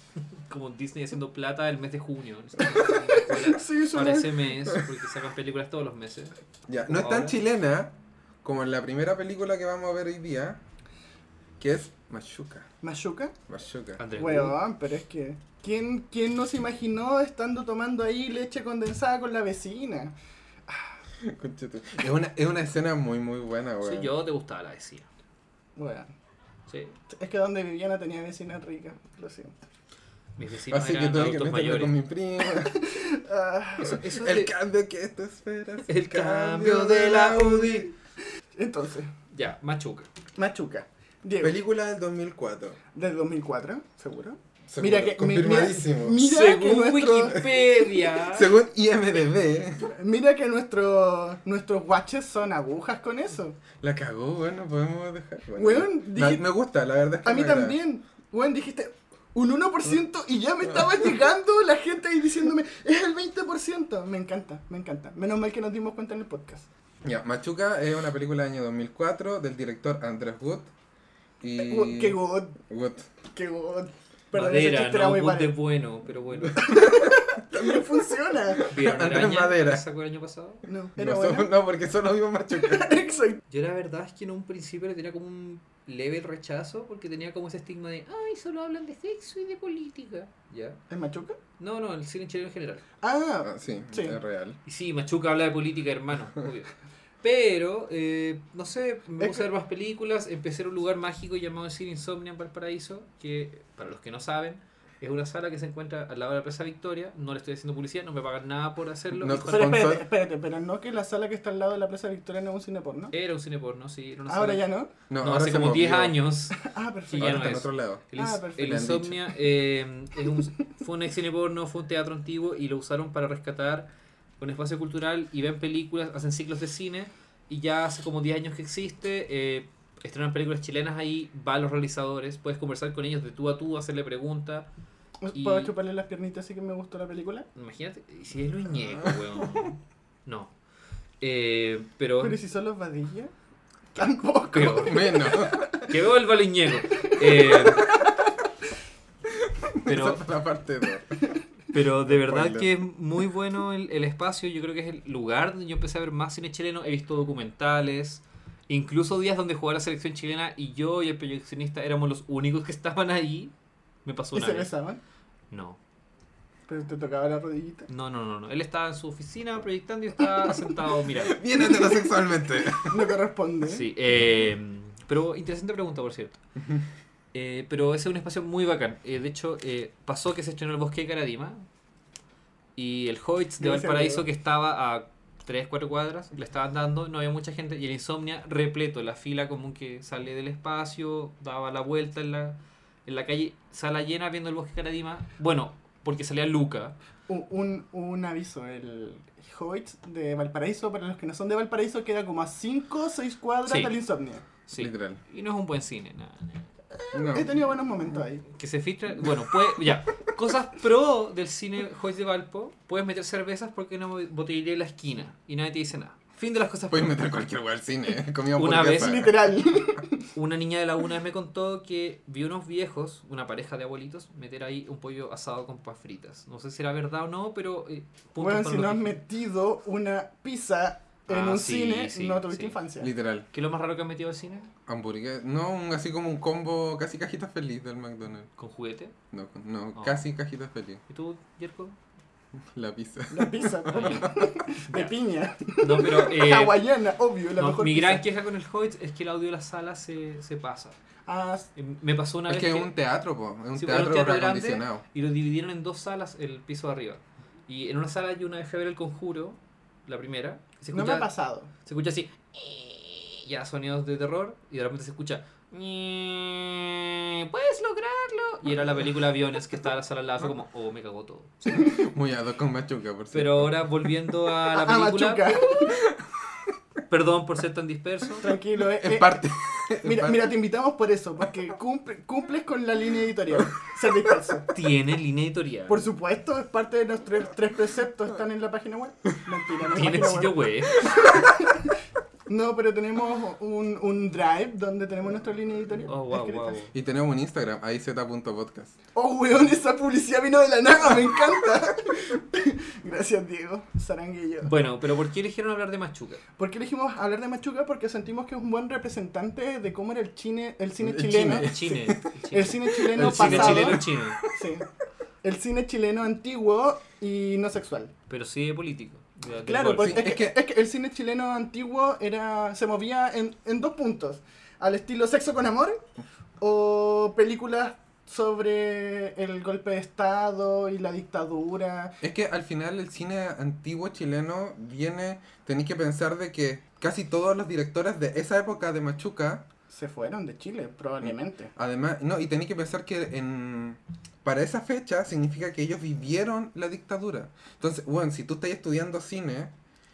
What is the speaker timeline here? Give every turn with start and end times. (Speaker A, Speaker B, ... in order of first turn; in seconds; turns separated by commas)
Speaker A: 0.5-7.4, Speaker B: 2.6-4.7, Speaker C: 6.7-10.6, Speaker C: 11.6-12.7, Speaker B: 12.8-13.3, Speaker C: 13.5-14.0, Speaker A: 14.0-14.6, Speaker B: 14.2-20.1, Speaker B: 20.7-20.9, Speaker C: 21.2-24.1, Speaker A: 23.8-25.1, Speaker B: 25.8-26.1, Speaker A: 26.7-26.9, Speaker B: 27.1-29.5, Speaker A: 30.4-31.9, Speaker C: 30.7-32.9, Speaker B: 32.5-34.0, Speaker A: 33.8-34.5, Speaker C: 34.1-37.9, Speaker A: 35.9-37.9, Speaker B: 38.6-39.1, Speaker A: 39.3-40.1, Speaker B: 40.4-41.6, Speaker C: 41.4-42.8, Speaker B: 42.9-47.5, Speaker C: 44.7-46.2, Speaker A: 46.2-48.5, Speaker C: 48.3-49.9, Speaker B: 49.9-53.6, Speaker C: 53.8-57.8, Speaker B: 55.6-56.5, Speaker B: 57.2-66.7, Speaker C: 67.0-70.7, Speaker C: 71.4-72.2, Speaker B: 71.6-72.6, Speaker C: 72.7-73.1, Speaker B: 73.3-75.5, Speaker A: 74.3-76.8, Speaker C: 76.6-78.0, Speaker B: 76.6-78.7, Speaker C: 78.5-79.8, Speaker A: 78.7-80.7, Speaker B: 80.7-81.5, Speaker C: 81.0-83.0, Speaker B: 82.5-83.4, Speaker A: 83.5-90.8, Speaker B: 90.9-91.4, Speaker A: 91.6-92.8, Speaker B: 93.0-94.2, Speaker C: 93.4-94.6, Speaker A: 94.7-109.8, Speaker B: 99.2-99.5, Speaker C: 109.1-110.1, Speaker B: 109.5-113.1, Speaker A: 113.1-114.7, Speaker B: 114.3-114.9, Speaker C: 115.1-116.2, Speaker A: 115.2-134.7, Speaker B: 116.6-117.5, Speaker C: 117.2-118.0, Speaker B: 118.2-119.0, Speaker C: 118.6-119.2, Speaker B: 135.2-137.5, Speaker A: 135.3-135.7, Speaker A: 137.6-140.5, Speaker A: 141.2-142.4, Speaker B: 142.2-143.3, Speaker B: 143.9-145.9, Speaker A: 144.5-145.0, Speaker C: 144.6-145.6, Speaker A: 145.8-147.9, Speaker B: 147.0-148.0, Speaker C: 149.4-151.2, Speaker A: 149.8-150.2, Speaker A: 151.7-163.5, Speaker C: 152.1-152.7, Speaker A: 164.1-164.7, Speaker B: 164.3-165.0, Speaker A: 165.5-165.8, Speaker B: 166.7-167.9, Speaker A: 167.9-171.4, Speaker C: 171.1-173.0, Speaker B: 171.7-172.1, Speaker B: 172.8-173.9, Speaker A: 173.7-176.4, Speaker A: 177.3-181.7, Speaker A: 182.8-197.0, Speaker B: 183.6-184.2, Speaker B: 197.3-204.4, Speaker A: 203.7-203.9, Speaker A: 204.7-206.7, Speaker C: 204.8-205.2, Speaker B: 206.9-208.4, Speaker C: 207.1-207.5, Speaker A: 208.5-217.2, Speaker C: 216.9-219.5, Speaker A: 218.6-219.3, Speaker B: 218.9-220.3, Speaker A: 220.3-229.2, Speaker B: 228.4-233.1, Speaker A: 231.3-232.8, Speaker C: 233.0-233.5, Speaker A: 233.5-234.7, Speaker C: 234.9-238.5, Speaker A: 238.6-239.1, Speaker C: 239.3-241.0, Speaker A: 239.9-240.2, Speaker A: 241.1-242.0, Speaker C: 242.7-244.4, Speaker B: 243.3-248.2, Speaker A: 243.9-245.1, Speaker A: 245.8-246.8, Speaker A: 247.6-251.0, Speaker B: 251.3-251.7, Speaker A: 251.8-252.9, Speaker C: 252.5-255.0, Speaker A: 253.8-261.3, Speaker B: 260.9-261.7, Speaker A: 261.9-271.9, Speaker C: 271.7-273.9, Speaker A: 273.3-275.7, Speaker B: 274.7-276.0, Speaker A: 277.1-278.5, Speaker B: 278.4-279.4, Speaker C: 278.8-280.5, Speaker B: 280.0-284.7, Speaker A: 284.7-286.1, Speaker B: 285.9-291.9, Speaker A: 289.9-291.1, Speaker B: 292.5-296.7, Speaker A: 296.1-296.9, Speaker C: 296.9-298.9, Speaker B: 299.1-304.7, Speaker A: 304.6-306.4, Speaker B: 306.6-311.8, Speaker C: 311.0-312.2, Speaker A: 311.5-314.4, Speaker B: 312.5-314.9, Speaker C: 312.9-314.5, Speaker B: 315.4-318.1, Speaker A: 318.3-320.2, Speaker B: 319.6-326.0, Speaker C: 320.0-320.6, Speaker B: 326.6-332.2, Speaker C: 332.2-339.7, Speaker B: 339.9-341.7, Speaker C: 341.2-349.7